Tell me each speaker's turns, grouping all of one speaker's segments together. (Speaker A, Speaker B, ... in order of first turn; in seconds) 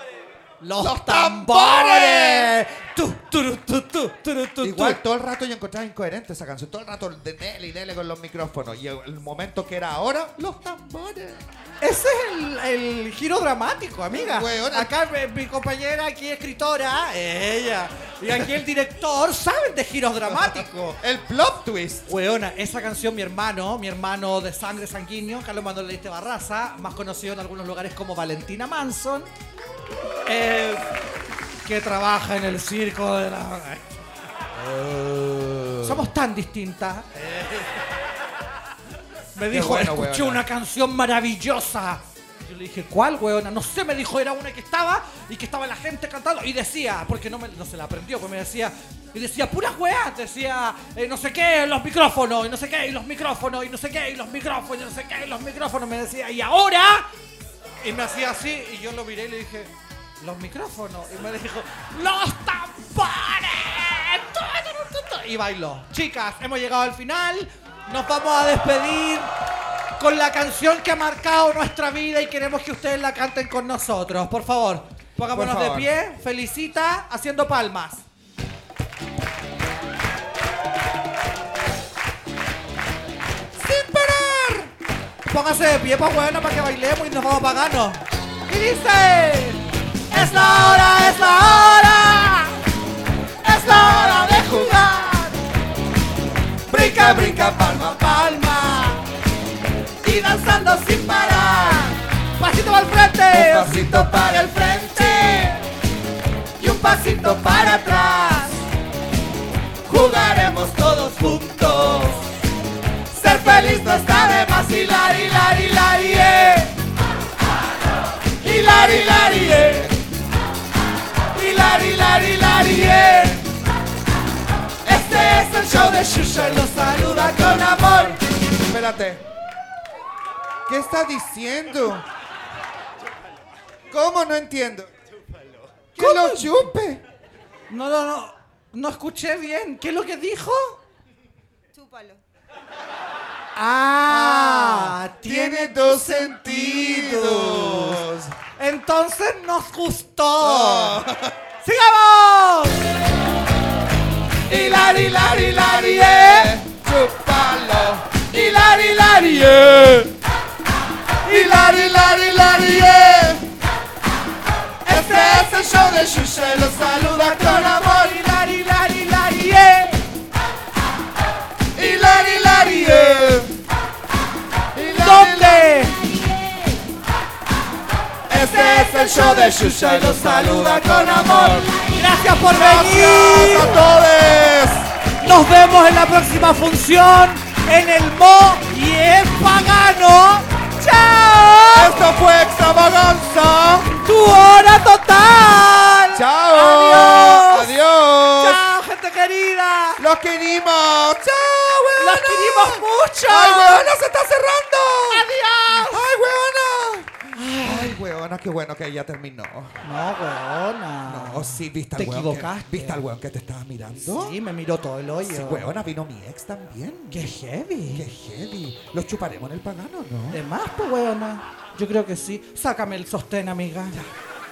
Speaker A: 0.6-5.0, 11.8-21.0, 22.1-29.3, 30.2-30.9, 31.6-34.0, 35.8-37.6, 39.3-57.0, 57.8-69.3, 70.0-78.0, 85.3-92.6, 93.4-95.4, 96.7-99.0, 100.0-105.6, 106.6-108.6, 110.5-111.5, 113.5-116.7, 118.5-119.7, 124.8-128.2, 135.9-136.7, 137.7-140.8, 143.6-148.0, 148.6-151.0, 151.6-152.9, 155.0-156.5, 164.8-165.7, 167.0-170.0, 175.0-176.2, 178.3-183.8, 185.2-192.0, 194.0-197.8, 198.4-200.0, 202.0-203.9, 205.1-206.1, 207.3-208.0, 209.8-213.0, 214.0-215.7, 217.1-218.1, 220.3-224.0
Speaker B: 0.8-2.5, 4.6-11.4, 14.1-14.9, 20.4-22.1, 34.5-36.1, 39.5-40.4, 75.3-75.9, 83.6-84.7, 93.5-94.8, 96.7-98.1, 103.3-105.5, 109.9-112.2, 113.1-116.6, 118.4-120.0, 121.3-123.4, 124.9-129.2, 130.7-132.0, 133.9-134.9, 135.9-137.0, 144.1-148.3, 150.4-151.3, 154.5-160.1, 161.2-163.5, 164.9-168.2, 171.7-173.5, 174.7-175.9, 178.3-181.7, 182.4-184.9, 191.7-194.0, 196.1-198.7, 200.0-209.8, 211.1-214.3, 215.2-217.2, 217.9-220.4